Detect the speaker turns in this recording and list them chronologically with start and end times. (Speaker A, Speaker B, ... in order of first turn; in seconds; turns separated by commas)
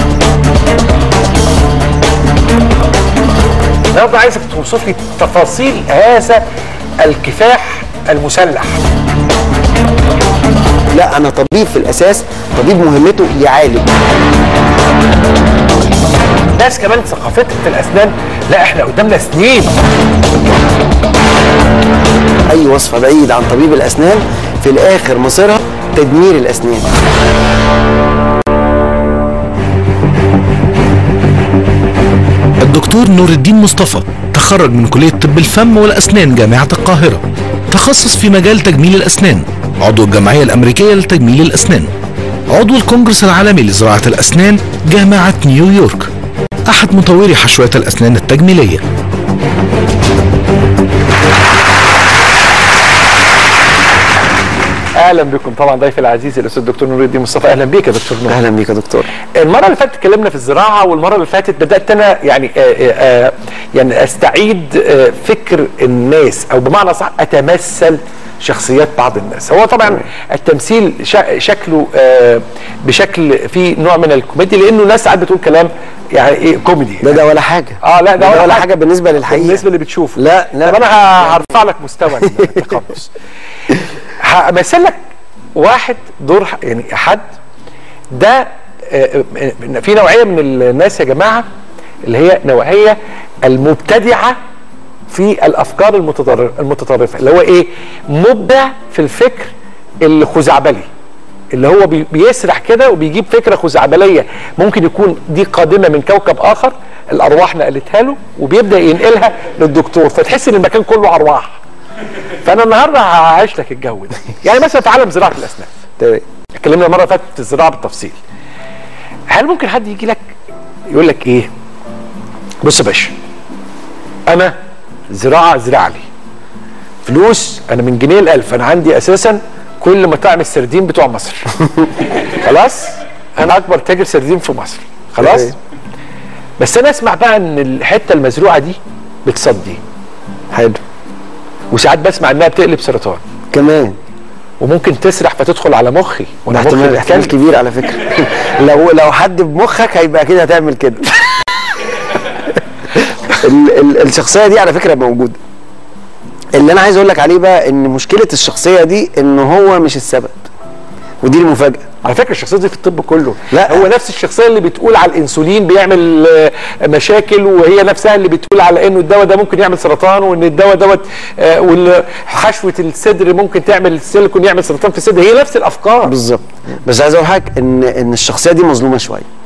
Speaker A: 3.9-6.4, Speaker A: 7.0-8.8, Speaker B: 10.9-13.9, Speaker A: 16.5-19.7, Speaker B: 22.5-26.9, Speaker C: 32.6-41.9, Speaker C: 42.5-46.1, Speaker C: 46.6-48.8, Speaker A: 55.0-58.4, Speaker B: 58.3-59.1, Speaker A: 59.4-77.2, Speaker B: 77.0-79.6, Speaker A: 77.8-78.7, Speaker A: 79.3-83.1, Speaker B: 80.2-81.4, Speaker A: 84.2-85.0, Speaker A: 85.5-87.2, Speaker A: 88.1-91.4, Speaker A: 92.0-94.3, Speaker A: 95.1-100.8, Speaker A: 101.5-111.5, Speaker A: 112.4-115.7, Speaker A: 116.6-118.2, Speaker A: 119.3-120.3, Speaker A: 120.9-121.5, Speaker A: 122.6-123.1, Speaker A: 124.3-124.5, Speaker A: 125.1-126.0, Speaker A: 127.1-131.5, Speaker A: 132.2-135.6, Speaker B: 135.2-135.5, Speaker A: 136.6-139.8, Speaker B: 140.5-140.8, Speaker A: 141.7-143.2, Speaker B: 143.5-143.9, Speaker A: 144.6-147.4, Speaker B: 146.5-151.2, Speaker B: 153.3-155.4, Speaker B: 156.5-160.5, Speaker B: 161.2-161.8, Speaker A: 162.0-176.2, Speaker B: 163.5-163.9, Speaker B: 176.0-179.2